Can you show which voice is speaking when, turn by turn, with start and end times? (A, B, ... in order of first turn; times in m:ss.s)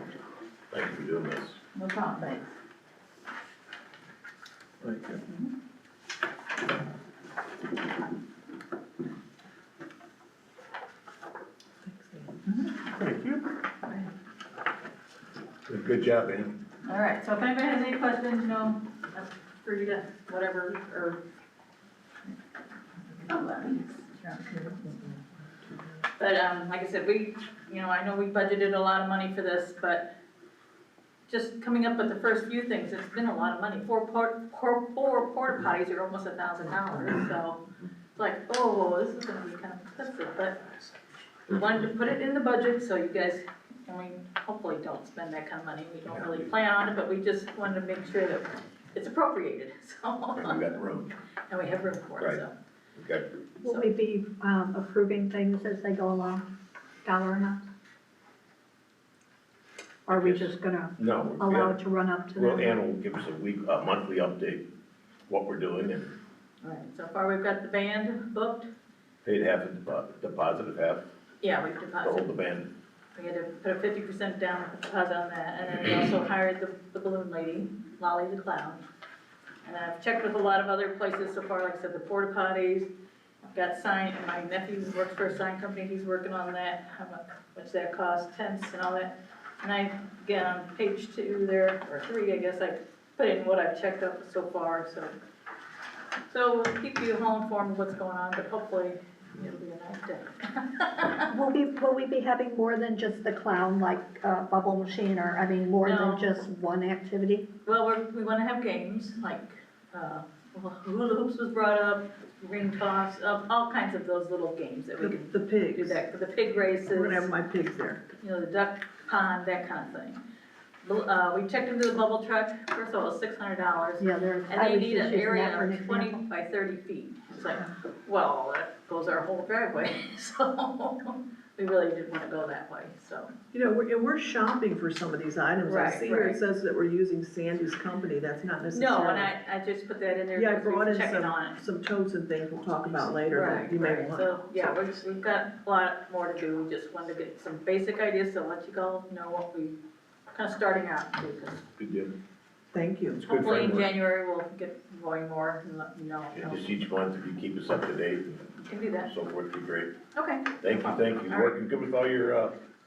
0:00.7-0:01.6 A
0:01.7-0:02.5 B
0:05.3-0:05.5 B
0:11.8-0:12.3 C
0:12.4-0:12.8 B
0:13.8-0:14.1 B
0:15.7-0:16.5 A
0:16.8-0:21.2 B
0:23.1-0:24.9 B
0:26.2-0:30.1 B
0:31.3-0:37.6 B
0:38.2-0:40.7 B
0:41.5-0:50.8 B
0:50.4-0:51.1 A
0:51.5-0:52.5 B
0:53.0-0:53.2 A
0:53.6-0:53.9 B
0:53.6-0:56.4 D
0:57.0-0:57.6 D
1:00.1-1:02.7 D
1:00.1-1:01.8 A
1:02.3-1:04.6 A
1:05.3-1:06.1 A
1:06.6-1:08.7 B
1:09.2-1:11.1 A
1:11.4-1:12.3 B
1:12.0-1:12.7 A
1:13.1-1:18.8 B
1:19.6-1:22.9 B
1:23.4-1:35.2 B
1:36.3-1:41.3 B
1:41.3-1:47.4 D
1:45.8-1:46.3 B
1:47.6-1:57.3 B
1:55.0-1:56.0 C
1:56.9-1:58.0 C
1:58.2-2:00.2 B
2:00.8-2:13.3 B
2:04.0-2:06.2 D
2:13.5-2:19.3 C
2:15.6-2:16.4 B
2:18.7-2:21.6 B
2:20.3-2:24.3 C
2:23.3-2:29.8 B
2:30.3-2:31.6 B
2:31.8-2:32.1 A
2:32.7-2:33.2 C
2:33.2-2:33.9 A
2:33.2-2:36.7 B
2:36.3-2:38.4 A
2:38.6-2:39.1 B
2:39.1-2:39.9 A
2:40.1-2:41.5 B
2:40.6-2:42.5 A